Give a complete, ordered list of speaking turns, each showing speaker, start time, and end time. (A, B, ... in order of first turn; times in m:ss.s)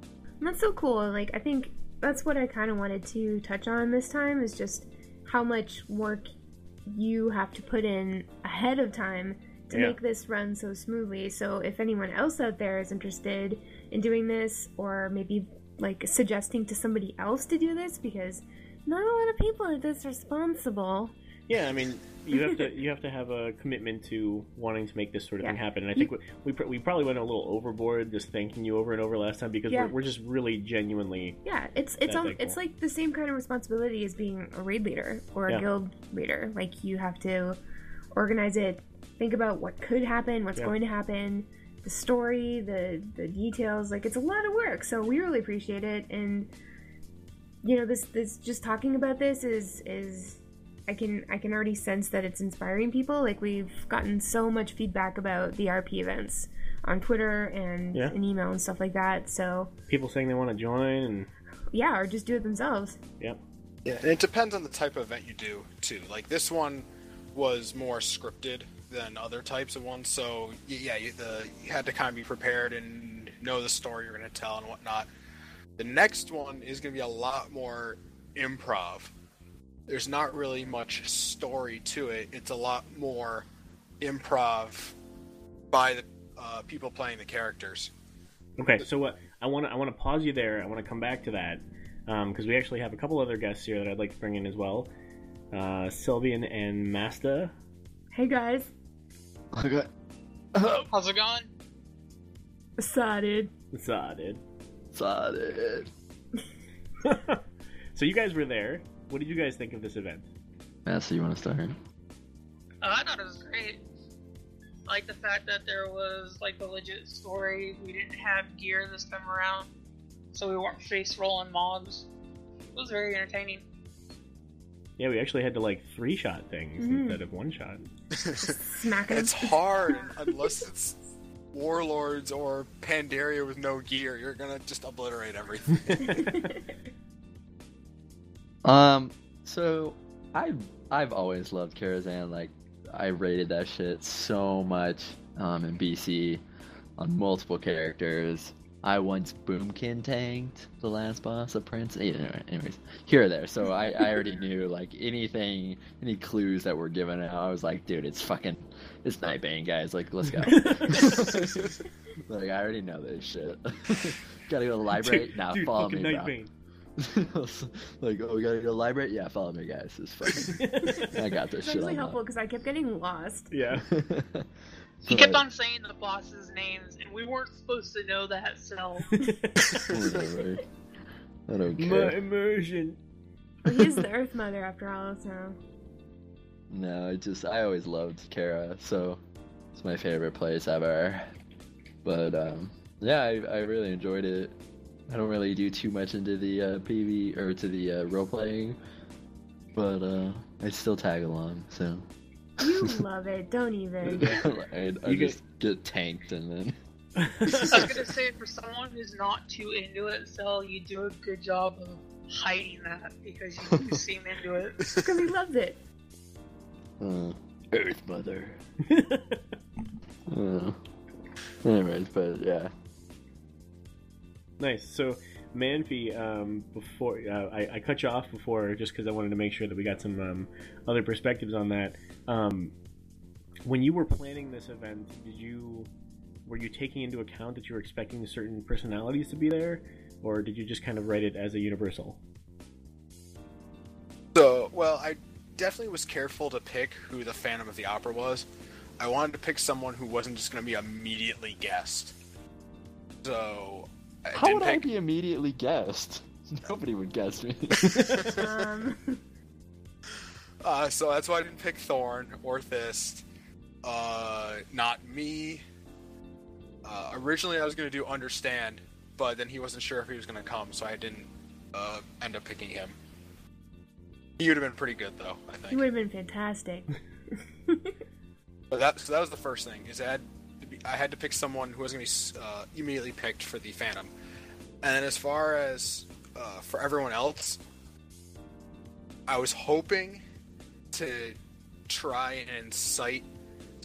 0:00.4-0:06.3 A
0:06.9-0:21.1 A
0:09.7-0:10.0 B
0:21.5-0:31.4 B
0:22.3-0:22.6 A
0:25.4-0:26.1 A
0:29.7-0:29.9 A
0:31.4-0:37.6 A
0:32.0-0:32.6 B
0:38.1-0:46.5 A
0:47.6-0:59.7 A
0:59.9-1:01.3 B
1:01.7-1:03.0 A
1:03.8-1:15.1 C
1:15.8-1:19.1 C
1:19.9-1:23.4 C
1:24.0-1:24.9 C
1:25.7-1:27.9 C
1:28.6-1:34.9 B
1:35.5-1:37.5 B
1:38.1-1:38.7 A
1:39.5-1:39.9 D
1:40.5-1:40.9 D
1:40.9-1:41.5 E
1:42.8-1:43.5 A
1:43.7-1:44.4 B
1:44.9-1:45.9 D
1:47.0-1:47.4 B
1:47.9-1:50.3 B
1:50.8-1:51.8 D
1:52.8-1:53.8 E
1:54.9-1:59.7 E
2:00.3-2:02.1 E
2:02.7-2:03.6 E
2:05.0-2:07.9 B
2:06.8-2:07.2 A
2:08.1-2:08.5 C
2:08.4-2:10.0 A
2:09.1-2:11.0 C
2:11.5-2:16.3 C
2:16.1-2:16.5 A
2:18.6-2:26.4 D
2:27.0-2:46.3 D
2:40.5-2:41.0 B
2:45.0-2:46.5 B
2:47.0-2:52.2 D
2:50.6-2:51.1 B
2:51.6-2:53.5 A
2:53.5-2:53.9 B
2:53.8-2:54.5 D
2:55.0-2:59.1 E
2:55.1-2:55.4 D
2:59.2-2:59.9 B
2:59.8-3:00.6 D
3:01.5-3:02.2 D
3:01.8-3:03.0 B
3:03.6-3:05.6 A
3:06.7-3:09.2 D
3:09.7-3:11.3 D
3:12.0-3:14.5 D
3:15.1-3:18.8 D
3:19.7-3:22.0 D
3:22.6-3:24.4 A
3:22.6-3:22.9 D
3:24.0-3:26.7 D
3:25.0-3:25.4 B
3:27.2-3:27.8 B
3:27.4-3:27.9 D
3:27.7-3:34.8 E
3:35.0-3:35.8 A
3:37.0-3:38.6 D
3:38.9-3:39.4 B
3:40.3-3:40.8 D
3:41.6-3:42.7 D
3:44.6-3:52.7 B
3:53.6-3:55.9 B
3:56.4-4:02.2 B
4:04.3-4:08.4 C
4:09.0-4:12.1 C
4:13.2-4:14.8 C
4:14.3-4:18.3 D
4:17.9-4:18.4 C
4:18.3-4:19.2 A
4:20.6-4:23.2 C
4:23.8-4:25.6 C
4:26.8-4:32.9 C
4:34.4-4:35.8 C
4:35.7-4:36.9 A
4:38.7-4:44.1 C
4:44.8-4:47.6 C
4:49.3-4:50.2 C
4:50.9-4:51.4 C
4:51.9-4:53.2 C